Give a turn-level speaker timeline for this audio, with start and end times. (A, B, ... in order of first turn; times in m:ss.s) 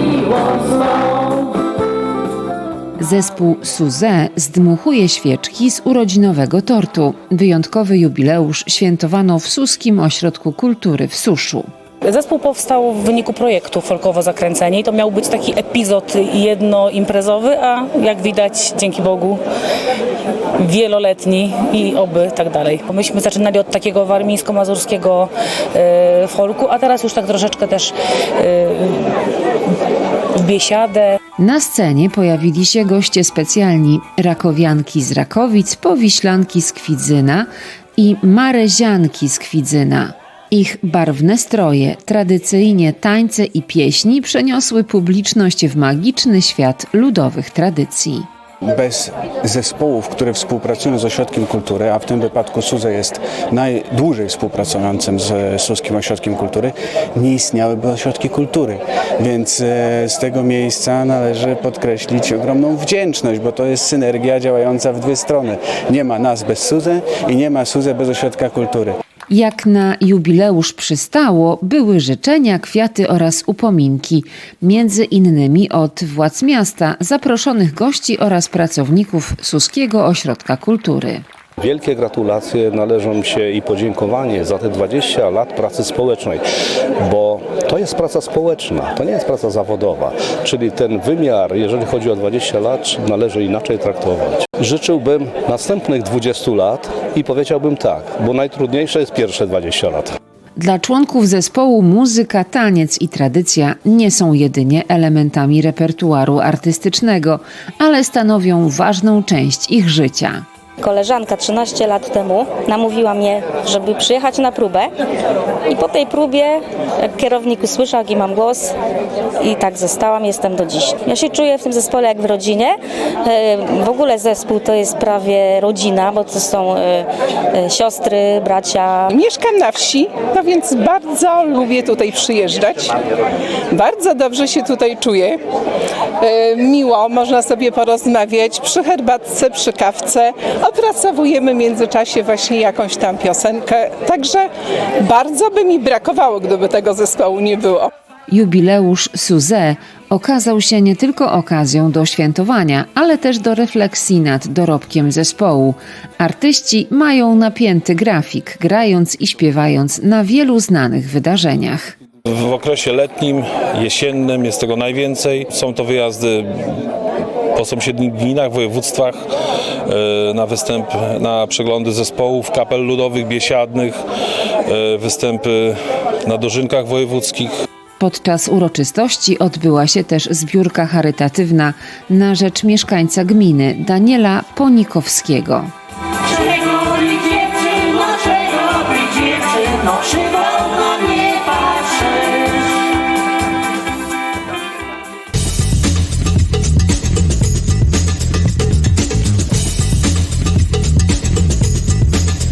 0:03.0-0:11.7 A
0:12.0-0:19.4 B
0:20.6-0:29.2 B
0:30.4-0:31.1 B
0:31.4-0:48.2 A
0:48.7-1:09.0 C
1:09.3-1:21.2 A
1:21.6-1:26.4 D
1:27.0-1:40.1 D
1:40.6-1:50.4 A
1:50.8-1:54.9 E
1:55.7-1:58.7 E
1:59.4-2:09.1 E
2:09.1-2:12.9 F
2:13.7-2:15.4 F
2:16.2-2:24.5 F
2:25.0-2:27.9 F
2:28.3-2:41.9 A
2:42.3-2:46.9 G
2:47.5-2:49.2 G
2:49.9-2:54.0 G
2:54.7-2:57.5 G
2:58.0-3:05.7 A